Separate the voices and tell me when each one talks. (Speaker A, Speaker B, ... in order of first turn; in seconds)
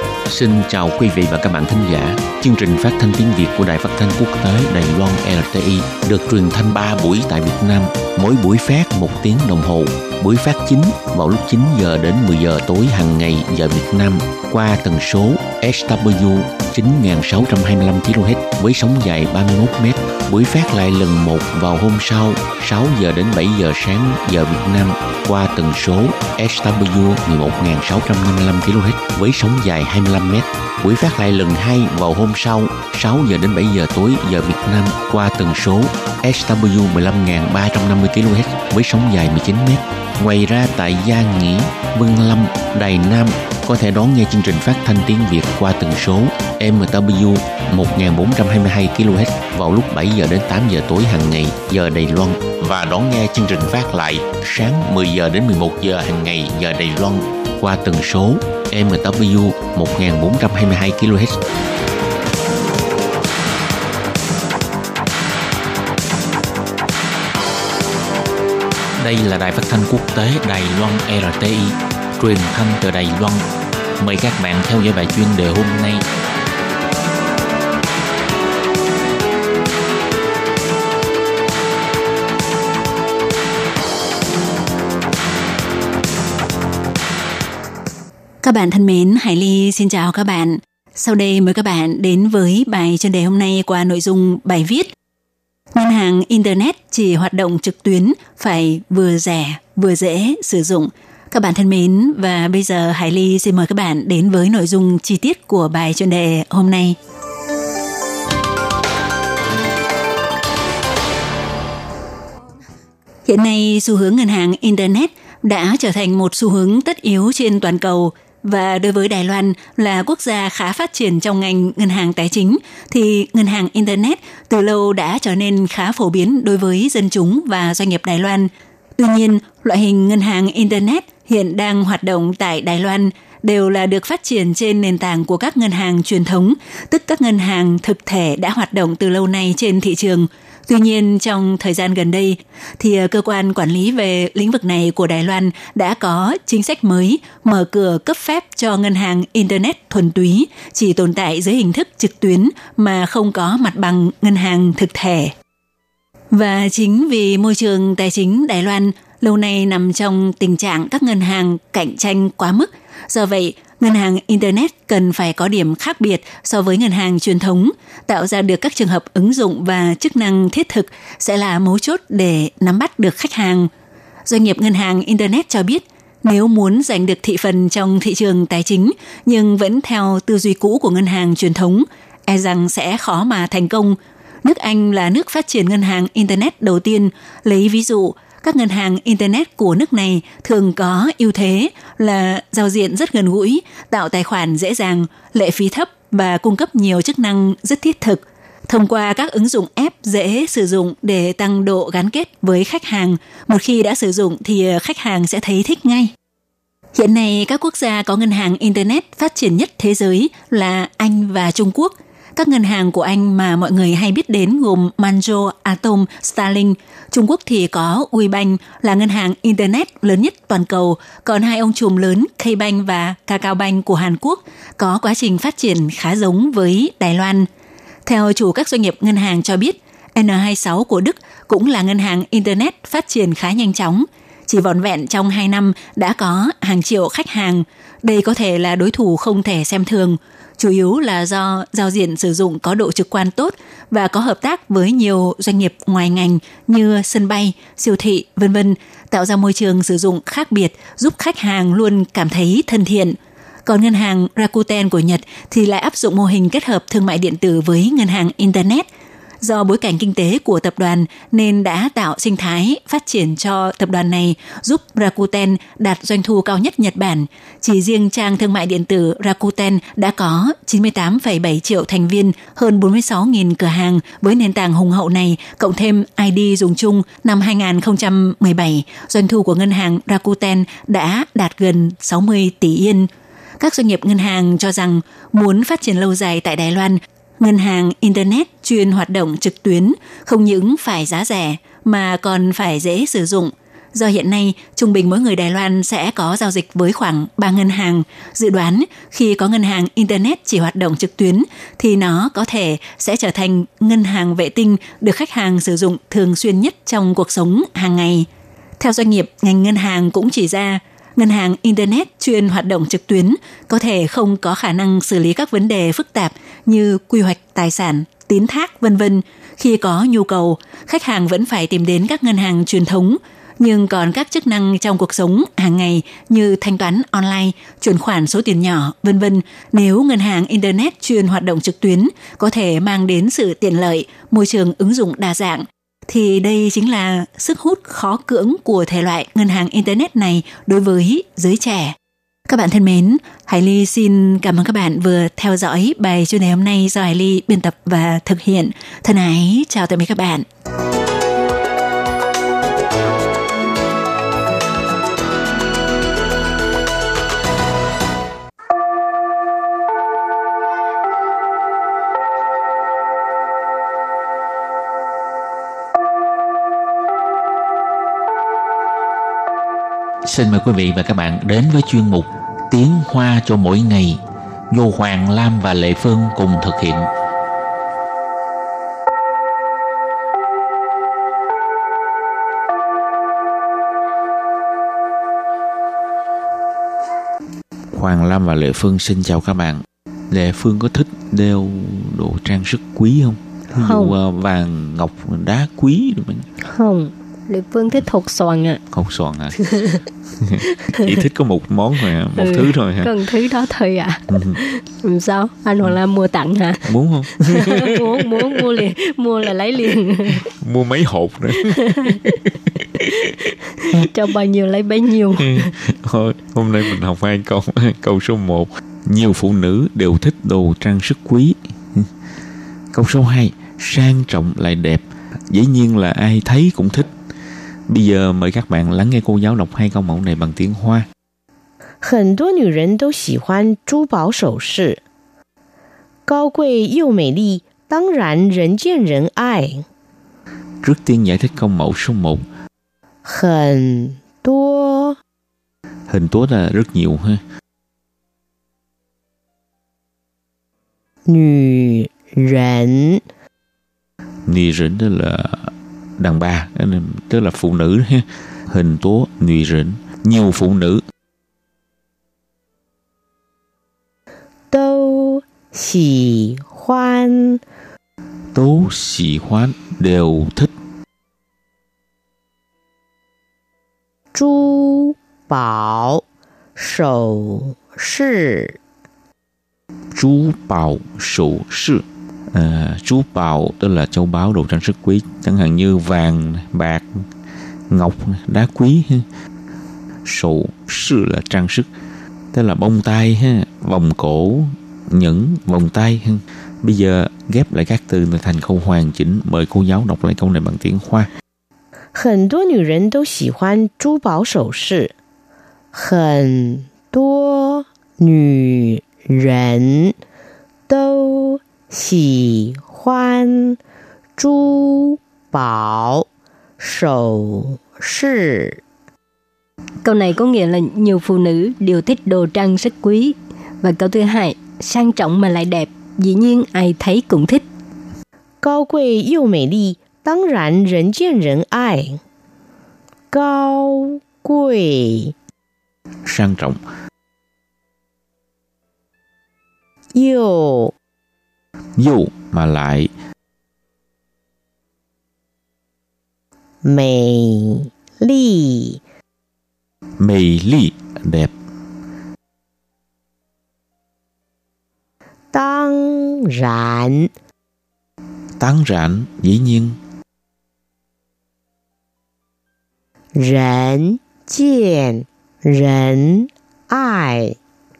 Speaker A: 0.3-61.4, 69.0-73.4, 74.0-76.0, 370.3-374.2, 374.7-377.1, 387.9-396.5, 398.9-399.6, 400.4-403.1, 404.3-404.6, 406.9-408.0, 410.5-412.4, 415.4-422.1, 422.9-427.1, 427.9-431.1, 440.8-442.4, 446.1-447.4, 454.5-461.0, 468.5-470.7, 480.1-487.2, 487.9-489.3, 490.2-491.9, 492.5-501.3, 536.3-536.8, 542.0-543.1, 550.2-551.5, 558.6-560.0
Speaker B: 88.4-94.9, 95.7-107.0, 113.3-155.3, 156.3-173.7, 174.3-206.1, 206.9-227.5, 228.1-258.9, 259.4-308.3, 308.8-341.9, 342.5-350.5
Speaker C: 393.8-394.1, 396.6-398.8, 399.6-400.0, 400.9-401.2, 402.4-406.9, 407.4-410.4, 411.8-412.4, 413.8-415.8, 520.0-527.6
Speaker D: 432.0-435.0, 436.3-439.9, 443.2-445.2, 451.3-453.2, 464.7-467.6, 474.3-476.2, 476.8-478.8, 502.1-505.1, 505.9-510.2, 510.9-513.8, 514.4-516.3, 516.8-518.8, 528.6-532.2, 533.3-535.3, 540.1-541.0, 546.8-549.0, 555.5-557.3, 563.4-567.6